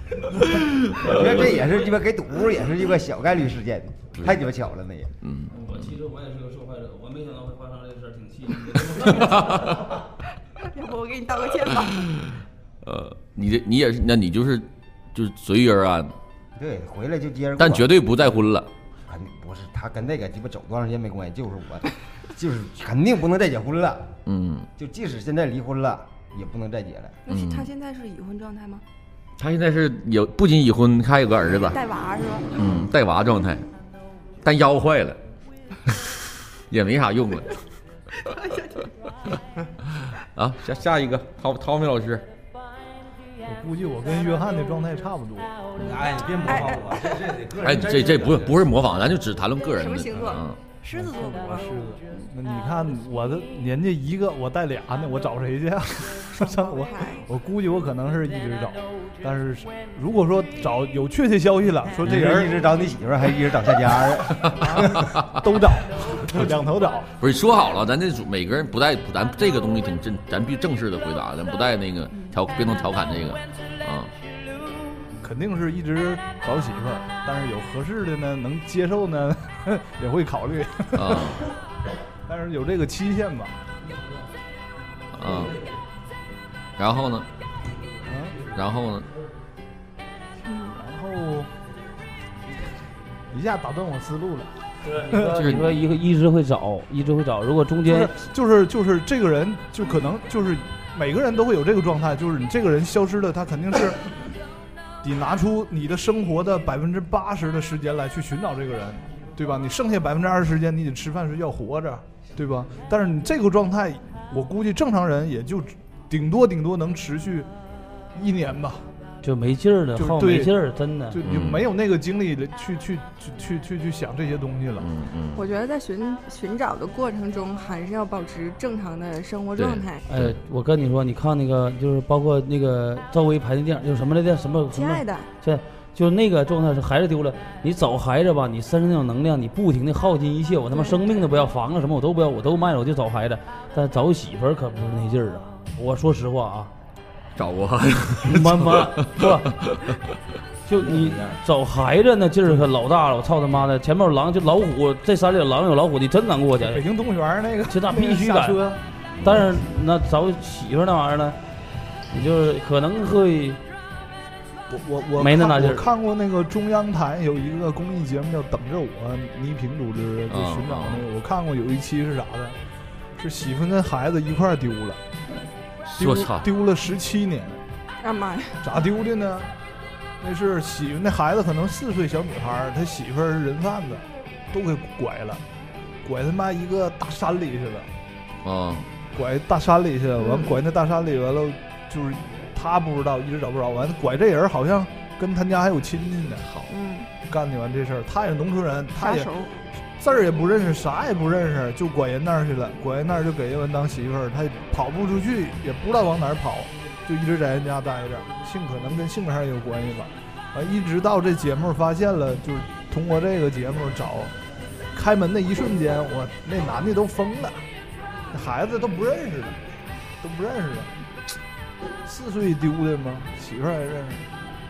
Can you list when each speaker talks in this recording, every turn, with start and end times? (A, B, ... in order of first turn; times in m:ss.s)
0:00.3-0:01.5 A
0:01.0-0:05.1 B
0:04.2-0:04.4 A
0:05.2-0:05.8 A
0:05.5-0:09.8 C
0:09.1-0:09.7 A
0:10.6-0:12.1 D
0:11.9-0:12.3 A
0:12.8-0:16.1 A
0:16.6-0:18.0 B
0:17.6-0:18.7 A
0:19.1-0:24.1 B
0:24.3-0:24.7 A
0:24.8-0:27.2 B
0:27.3-0:28.8 D
0:27.3-0:27.7 A
0:29.4-0:31.8 A
0:31.7-0:32.6 D
0:32.6-0:33.7 A
0:34.4-0:35.2 A
0:35.9-0:36.2 A
0:36.7-0:37.6 A
0:38.3-0:38.9 D
0:40.0-0:42.3 A
0:43.4-0:45.6 E
0:45.8-0:46.0 A
0:45.8-0:48.7 F
0:46.5-0:47.3 D
0:47.6-0:50.6 A
0:49.8-0:51.8 D
0:50.9-1:02.6 E
0:56.3-0:57.3 D
1:02.0-1:04.9 B
1:04.6-1:07.1 E
1:07.2-1:14.1 A
1:15.2-1:21.4 E
1:20.9-1:21.5 A
1:22.3-1:23.6 E
1:25.1-1:25.6 A
1:25.2-1:25.6 F
1:26.8-1:27.3 A
1:28.1-1:28.4 E
1:28.5-1:29.1 A
1:30.6-1:31.5 E
1:33.3-1:35.5 E
1:34.8-1:38.1 C
1:35.3-1:35.8 A
1:37.9-1:44.1 E
1:45.0-1:57.5 E
1:58.1-1:58.9 E
1:59.2-2:01.2 C
2:00.0-2:00.6 E
2:01.1-2:04.9 E
2:01.2-2:01.7 A
2:04.8-2:05.4 A
2:05.3-2:10.0 D
2:09.6-2:10.4 A
2:10.1-2:26.7 C
2:14.7-2:15.3 D
2:27.4-2:30.0 A
2:28.2-2:29.5 C
2:30.7-2:36.8 C
2:30.8-2:31.4 B
2:36.7-2:38.8 E
2:37.7-2:38.6 C
2:39.2-2:39.5 A
2:39.2-2:41.4 C
2:42.1-2:43.6 C
2:44.7-2:52.6 E
2:45.2-2:45.8 C
2:50.3-2:51.0 A
2:53.2-2:55.0 E
2:55.9-2:56.5 A
2:56.0-2:57.6 E
2:58.0-2:58.7 D
2:58.6-2:59.5 E
3:00.2-3:05.4 E
3:06.0-3:07.9 E
3:08.4-3:08.9 A
3:09.1-3:16.5 E
3:10.2-3:10.6 D
3:16.7-3:17.1 D
3:17.3-3:19.3 E
3:19.0-3:19.5 D
3:20.0-3:34.3 E
3:34.9-3:37.6 E
3:38.3-3:39.6 E
3:40.2-3:40.9 E
3:42.0-3:44.3 E